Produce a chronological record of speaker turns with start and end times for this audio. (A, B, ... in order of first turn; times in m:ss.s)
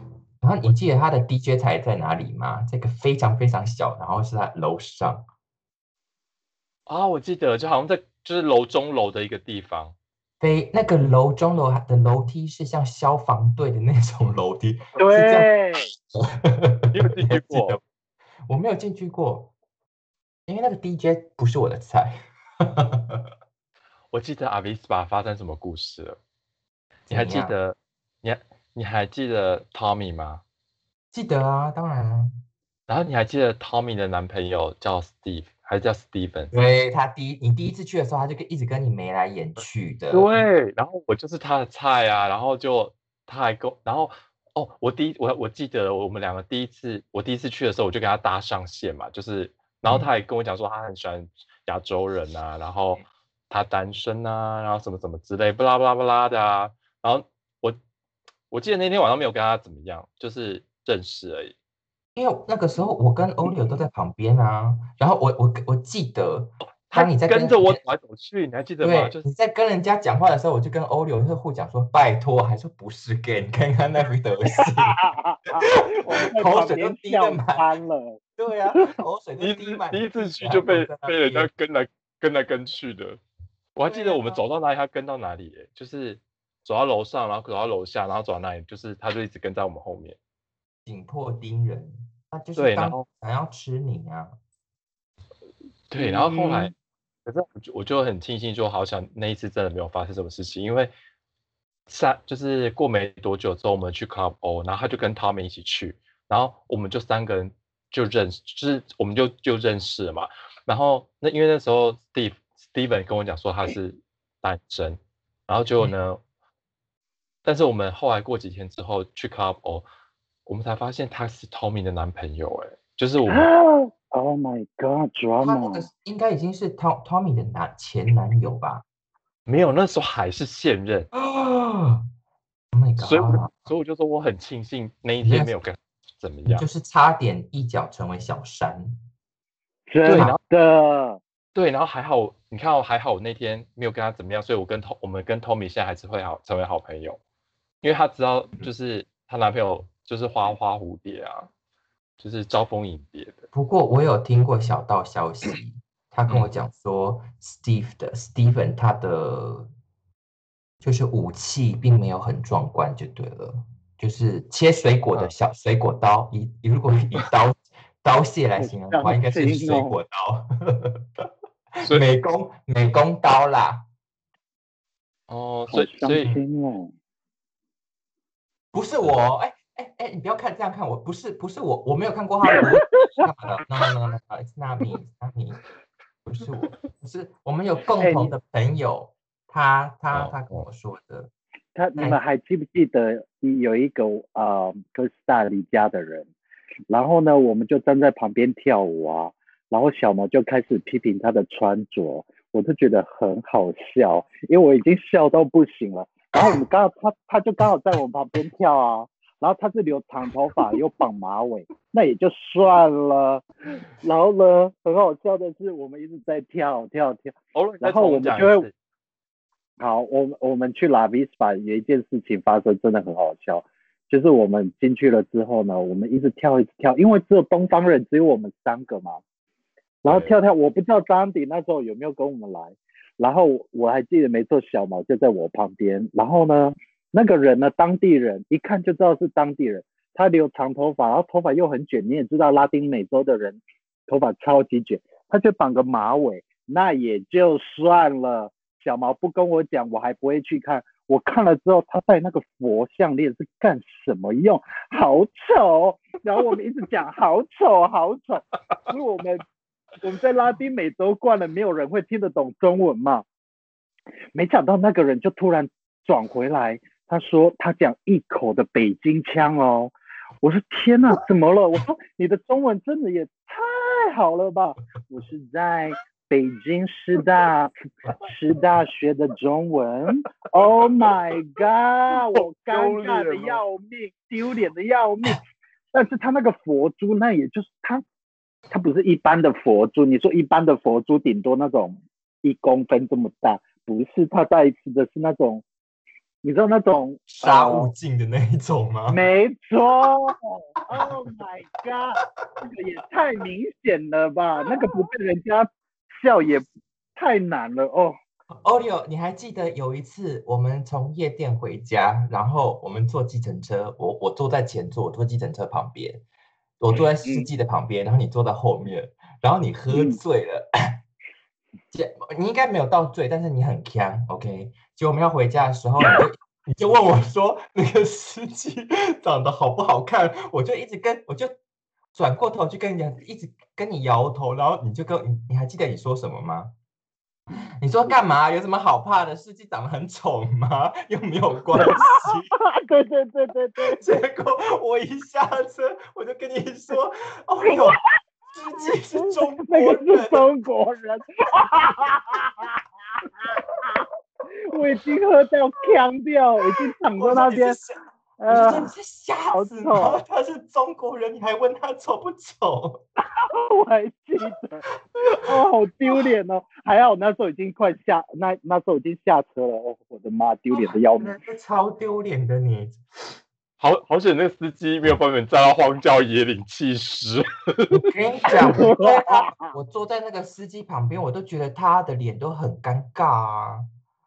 0:00.4-0:05.2 A
0:06.9-0:10.0 B
0:10.4-0:17.8 A
0:15.0-0:15.9 C
0:16.9-0:17.8 B
0:18.5-0:19.5 A
0:20.5-0:23.2 A
0:24.1-0:26.2 B
0:27.1-0:30.4 B
0:27.1-0:27.6 A
0:31.1-0:32.3 A
0:32.9-0:36.5 B
0:36.5-0:40.4 A
0:39.6-0:57.8 B
0:58.5-1:01.6 B
1:02.2-1:07.8 A
1:06.9-1:09.2 B
1:08.8-1:15.0 A
1:14.6-1:18.2 C
1:16.0-1:17.7 A
1:18.4-1:21.5 A
1:19.4-1:23.2 B
1:23.8-1:30.2 B
1:23.8-1:24.4 A
1:30.9-1:34.4 A
1:32.6-1:33.1 B
1:35.9-1:36.7 B
1:36.0-1:36.7 A
1:37.3-1:40.9 B
1:41.9-1:56.2 B
1:57.4-1:59.9 B
2:00.5-2:03.5 B
2:03.3-2:05.9 C
2:05.4-2:08.8 A
2:09.5-2:11.1 B
2:11.1-2:12.0 A
2:12.7-2:13.7 A
2:13.0-2:16.7 B
2:15.2-2:15.6 A
2:16.5-2:19.0 A
2:19.9-2:21.2 C
2:20.0-2:20.4 B
2:20.1-2:20.4 A
2:21.5-2:27.2 B
2:27.8-2:31.5 B
2:32.2-2:33.4 B
2:33.5-2:39.7 A
2:40.8-2:53.9 A
2:48.6-2:50.0 C
2:55.3-2:56.3 B
2:55.7-2:56.9 C
2:58.7-3:05.6 A
3:06.2-3:11.3 A
3:08.0-3:08.4 C
3:10.1-3:10.6 B
3:11.7-3:16.3 C
3:16.9-3:38.7 C
3:37.6-3:38.7 B
3:39.8-3:49.2 C
3:50.0-4:19.4 C
3:50.1-3:50.4 B
4:20.0-4:23.2 C
4:24.3-4:45.4 C
4:42.1-4:43.6 B
4:45.9-4:48.0 C
4:48.7-4:55.6 C
4:56.4-4:57.9 C
4:57.3-4:59.3 A
4:59.1-5:05.7 C
5:06.2-5:08.2 C
5:08.5-5:16.2 A
5:16.8-5:20.7 A
5:16.9-5:17.5 C
5:19.9-5:20.2 C
5:21.9-5:31.6 A
5:32.2-5:36.7 A
5:37.5-5:42.5 A
5:41.8-5:44.0 C
5:43.8-5:48.0 A
5:47.6-5:48.0 C
5:48.5-5:50.5 A
5:49.1-5:52.8 C
5:53.4-5:54.0 C
5:54.6-5:57.8 C
5:57.1-5:58.0 A
5:58.4-5:58.9 C
5:58.5-6:03.0 A
5:59.5-6:00.2 C
6:03.4-6:04.8 C
6:05.4-6:11.4 C
6:10.7-6:13.0 A
6:13.8-6:18.0 B
6:17.9-6:23.9 A
6:18.7-6:19.8 C